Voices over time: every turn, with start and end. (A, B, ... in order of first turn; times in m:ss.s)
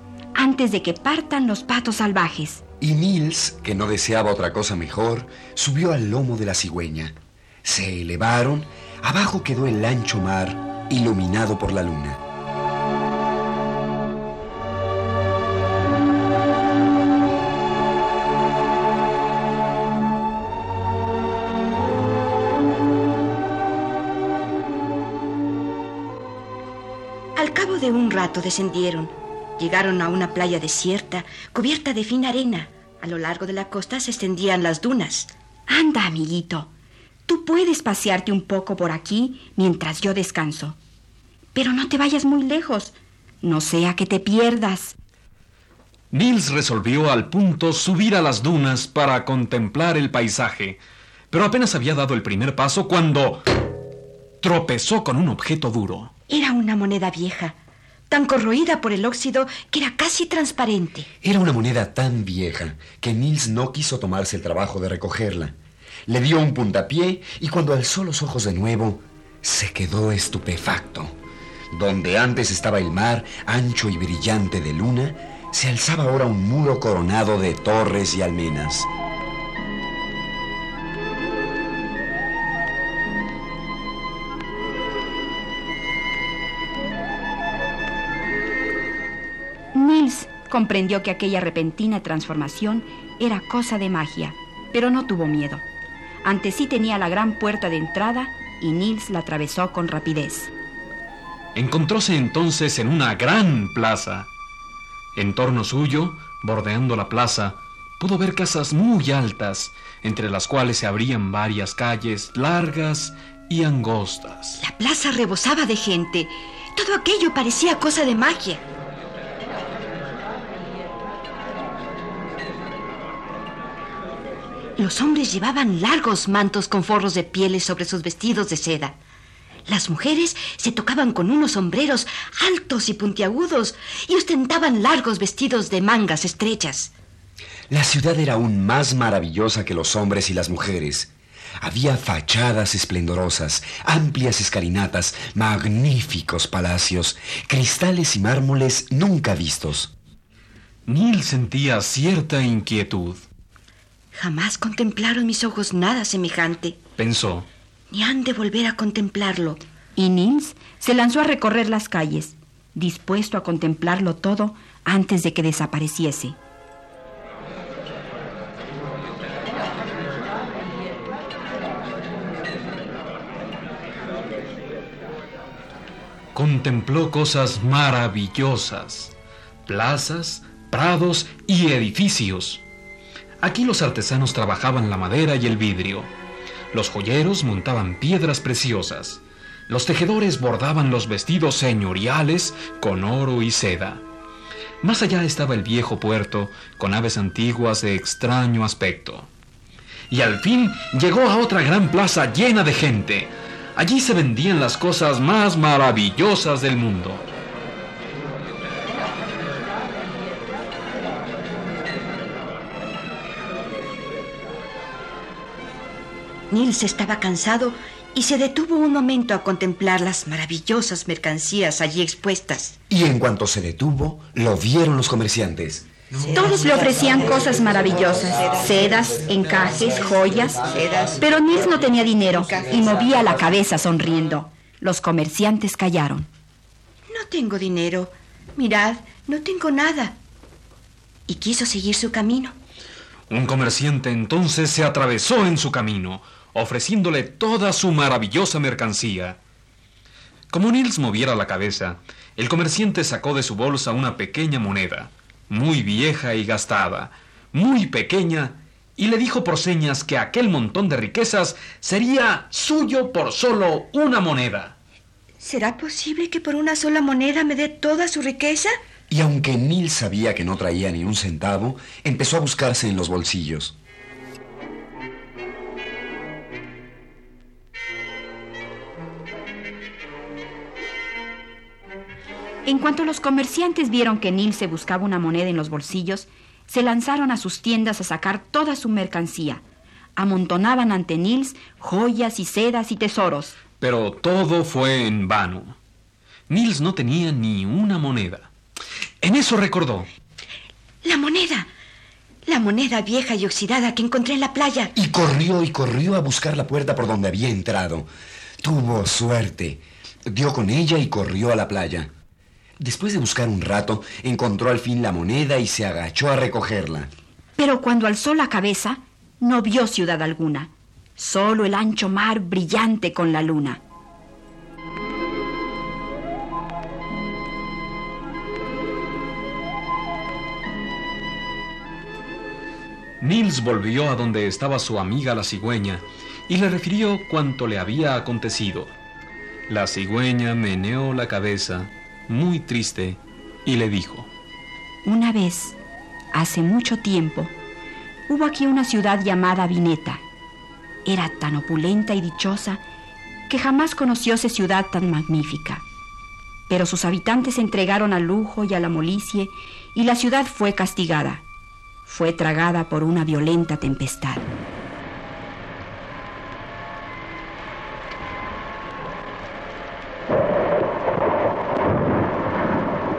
0:00.3-0:02.6 A
0:02.8-0:12.2 B
0:27.4-0:35.3 C
0:35.7-0:36.7 A
0:37.3-0:40.8 A
0:41.5-0:45.0 A
0:46.1-0:50.8 D
0:51.3-0:53.4 D
0:54.4-0:56.1 D
0:56.3-0:57.6 C
0:58.1-1:01.1 C
1:01.2-1:05.5 B
1:06.1-1:11.2 B
1:11.7-1:18.9 B
1:29.7-1:35.6 A
1:36.2-1:40.5 A
1:41.5-1:44.3 D
1:45.1-1:54.6 D
1:54.6-1:58.6 C
2:04.8-2:09.0 C
2:09.7-2:16.9 C
2:17.7-2:29.9 B
2:30.8-2:33.2 D
2:34.1-2:36.8 C
2:37.0-2:37.5 D
2:37.9-2:39.6 C
2:40.0-2:46.4 A
2:56.3-2:59.1 D
2:59.6-3:02.6 D
3:03.4-3:06.1 D
3:06.7-3:14.0 D
3:14.8-3:19.3 D
3:20.1-3:27.2 D
3:36.5-3:42.8 C
3:42.9-3:45.9 B
3:46.3-3:50.6 A
3:48.4-3:48.6 C
3:50.6-3:51.5 C
3:51.2-3:56.3 A
3:52.4-3:52.7 C
3:57.1-4:00.2 C
4:01.3-4:02.5 C
4:03.3-4:09.4 D
4:10.5-4:24.7 D
4:25.4-4:28.8 C
4:29.1-4:33.7 B
4:42.6-4:49.6 A
4:50.2-4:53.5 A
4:53.8-4:55.8 D
4:56.5-4:58.5 D
4:59.2-5:00.1 D
5:01.0-5:01.7 C
5:02.5-5:04.9 C
5:04.9-5:08.1 B
5:08.6-5:12.1 B
5:12.8-5:17.1 B
5:17.6-5:23.8 A
5:33.2-5:38.9 D
5:39.7-5:44.3 D
5:45.0-5:45.8 A
5:46.3-5:47.5 A
5:48.3-5:50.2 A
5:51.0-5:52.8 A
5:53.5-5:55.8 A
5:56.7-6:01.4 A
6:02.0-6:04.5 A